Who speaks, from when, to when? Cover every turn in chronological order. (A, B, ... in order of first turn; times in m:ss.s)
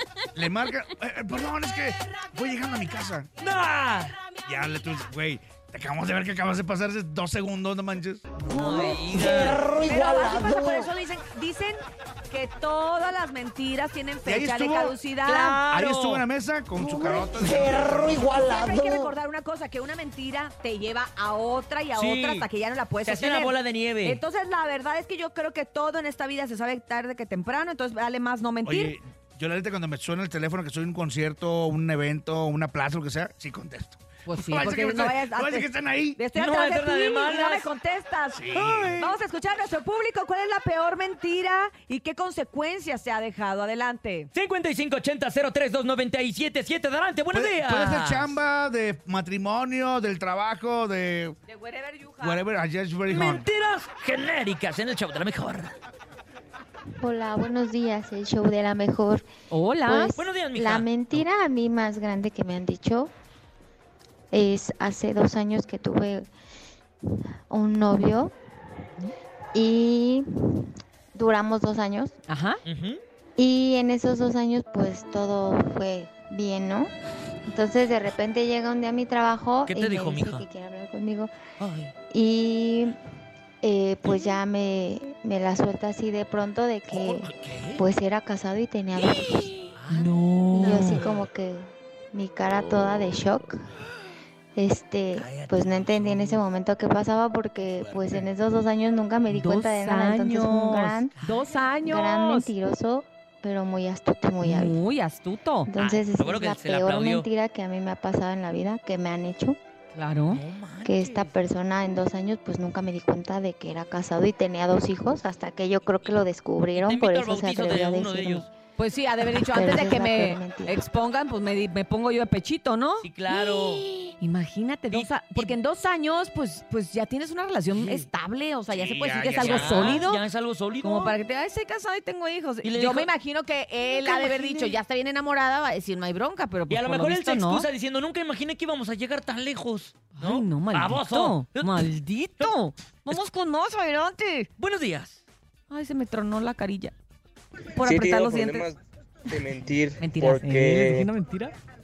0:00.4-0:03.3 A
0:03.4-0:04.2 B
0:04.4-0:08.3 A
0:08.5-0:15.6 C
0:08.5-0:09.7 B
0:14.2-0:15.0 A
0:15.2-0:16.2 B
0:15.7-0:18.4 A
0:18.2-0:29.0 C
0:22.0-0:22.5 B
0:23.0-0:24.2 B
0:28.6-0:36.2 A
0:34.3-0:38.5 C
0:36.4-0:37.7 B
0:38.3-0:39.1 A
0:38.5-0:39.0 B
0:39.0-0:44.3 C
0:44.3-0:48.4 B
0:47.3-0:51.4 A
0:51.5-0:52.4 C
0:52.2-0:53.5 A
0:53.1-0:55.8 B
0:57.0-0:59.3 D
0:59.5-1:00.1 C
0:59.9-1:03.1 D
1:00.2-1:01.2 B
1:04.3-1:06.3 D
1:07.5-1:08.3 D
1:09.5-1:12.2 D
1:12.3-1:12.6 C
1:12.7-1:13.0 B
1:13.4-1:16.9 D
1:17.5-1:21.3 D
1:19.7-1:20.4 B
1:21.6-1:21.9 B
1:22.1-1:23.0 D
1:23.6-1:29.6 D
1:26.9-1:27.8 B
1:29.7-1:30.1 B
1:29.9-1:31.0 C
1:30.5-1:33.6 D
1:30.6-1:31.2 B
1:34.6-1:41.1 D
1:35.2-1:36.4 B
1:37.8-1:38.2 B
1:39.3-1:42.5 C
1:41.2-1:41.5 B
1:41.8-1:44.8 D
1:44.4-1:45.7 C
1:45.7-1:49.6 D
1:45.8-1:47.3 B
1:49.9-1:50.4 C
1:50.3-1:51.4 B
1:50.8-1:58.5 D
1:56.8-1:58.5 B
1:58.8-2:03.1 C
1:59.3-2:00.8 D
2:03.0-2:03.8 B
2:04.2-2:10.2 C
2:04.9-2:05.5 B
2:07.7-2:08.1 B
2:08.7-2:10.0 A
2:09.4-2:11.2 B
2:10.8-2:17.7 C
2:12.6-2:13.1 B
2:14.0-2:14.7 B
2:16.7-2:21.9 B
2:20.2-2:24.5 C
2:24.6-2:25.2 B
2:25.7-2:26.9 C
2:27.8-2:28.7 C
2:27.8-2:31.1 E
2:30.0-2:31.5 C